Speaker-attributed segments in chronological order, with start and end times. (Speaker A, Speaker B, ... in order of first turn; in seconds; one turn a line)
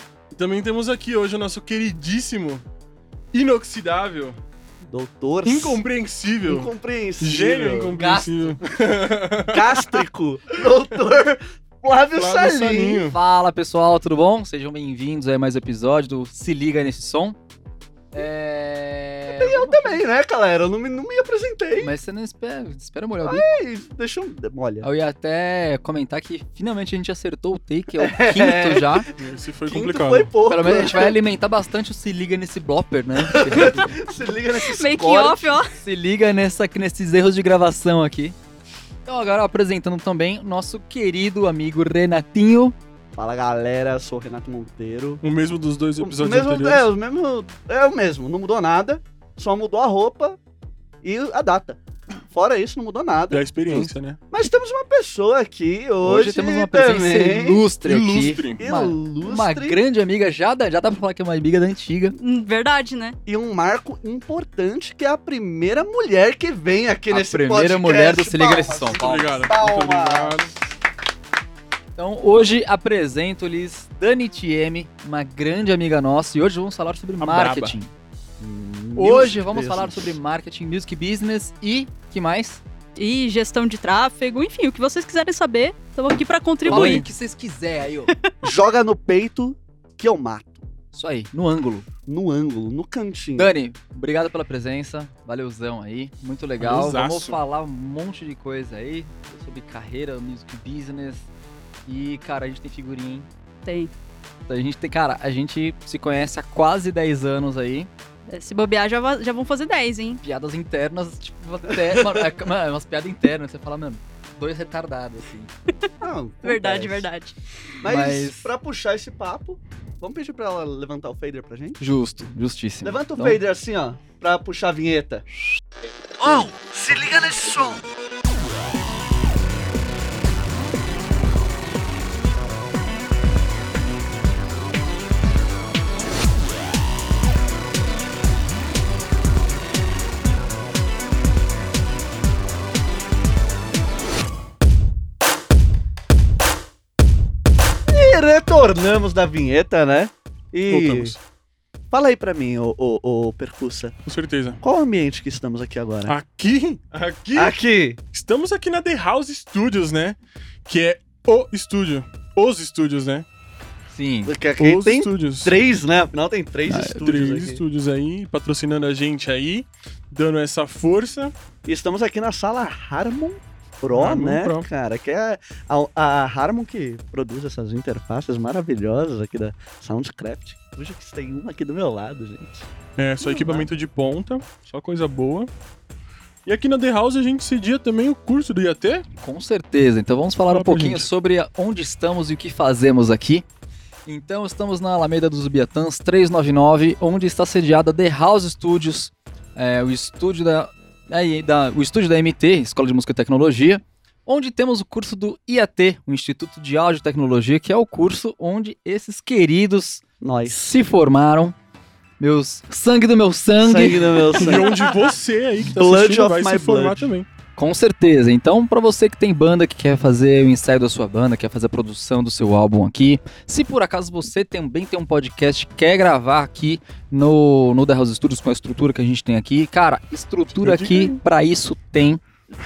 Speaker A: 0.3-2.6
Speaker A: 3.3-4.4
Speaker B: 4.8-5.8
Speaker A: 5.4-10.0
Speaker B: 6.4-8.0
Speaker C: 7.9-8.6
Speaker B: 9.5-13.1
Speaker A: 12.1-13.2
Speaker C: 13.1-17.4
Speaker C: 18.1-20.0
Speaker B: 19.3-21.9
Speaker C: 21.8-23.5
Speaker B: 23.2-24.9
Speaker C: 24.8-29.1
Speaker B: 28.0-29.1
Speaker A: 29.2-30.3
Speaker B: 29.7-31.2
Speaker C: 30.5-33.9
Speaker B: 33.2-35.6
Speaker D: 34.6-35.7
Speaker C: 35.7-38.4
Speaker C: 39.0-42.8
Speaker B: 43.1-45.2
Speaker A: 45.2-46.9
Speaker B: 46.0-50.4
Speaker B: 51.0-57.6
Speaker A: 53.3-54.2
Speaker C: 56.0-62.1
Speaker A: 57.8-58.6
Speaker B: 58.6-59.8
Speaker D: 62.2-63.1
Speaker B: 63.2-70.5
Speaker C: 67.1-69.5
Speaker A: 69.0-70.5
Speaker C: 72.0-77.9
Speaker A: 77.2-77.8
Speaker B: 78.4-80.2
Speaker C: 79.0-82.6
Speaker D: 83.0-87.0
Speaker C: 86.7-88.1
Speaker A: 86.7-87.1
Speaker B: 88.4-90.7
Speaker C: 90.9-91.9
Speaker B: 92.1-93.5
Speaker C: 93.3-101.3
Speaker A: 96.6-97.4
Speaker C: 101.8-103.3
Speaker D: 103.6-103.9
Speaker C: 104.5-107.9
Speaker D: 108.3-110.2
Speaker C: 110.2-115.5
Speaker B: 111.7-112.3
Speaker B: 116.0-117.1
Speaker D: 116.4-117.3
Speaker B: 117.8-121.8
Speaker C: 117.8-118.5
Speaker C: 121.8-123.4
Speaker B: 122.8-125.2
Speaker B: 126.2-127.8
Speaker B: 147.9-151.1
Speaker A: 150.7-151.2
Speaker B: 151.9-153.9
Speaker A: 154.0-154.6
Speaker B: 154.6-156.2
Speaker A: 156.1-157.6
Speaker B: 157.3-158.0
Speaker A: 158.1-163.2
Speaker C: 163.9-164.3
Speaker B: 164.2-167.6
Speaker A: 164.6-165.6
Speaker C: 166.7-167.0
Speaker A: 167.0-171.3
Speaker B: 171.6-182.7
Speaker A: 173.9-174.7
Speaker A: 183.0-185.5
Speaker B: 183.2-183.7
Speaker A: 186.4-189.0
Speaker C: 189.2-193.4
Speaker A: 190.5-191.1
Speaker C: 194.1-211.5
Speaker B: 210.2-210.7
Speaker C: 212.2-214.5
Speaker B: 213.6-214.9
Speaker A: 214.4-217.3
Speaker B: 215.6-217.1
Speaker C: 217.6-232.2
Speaker A: 230.6-231.2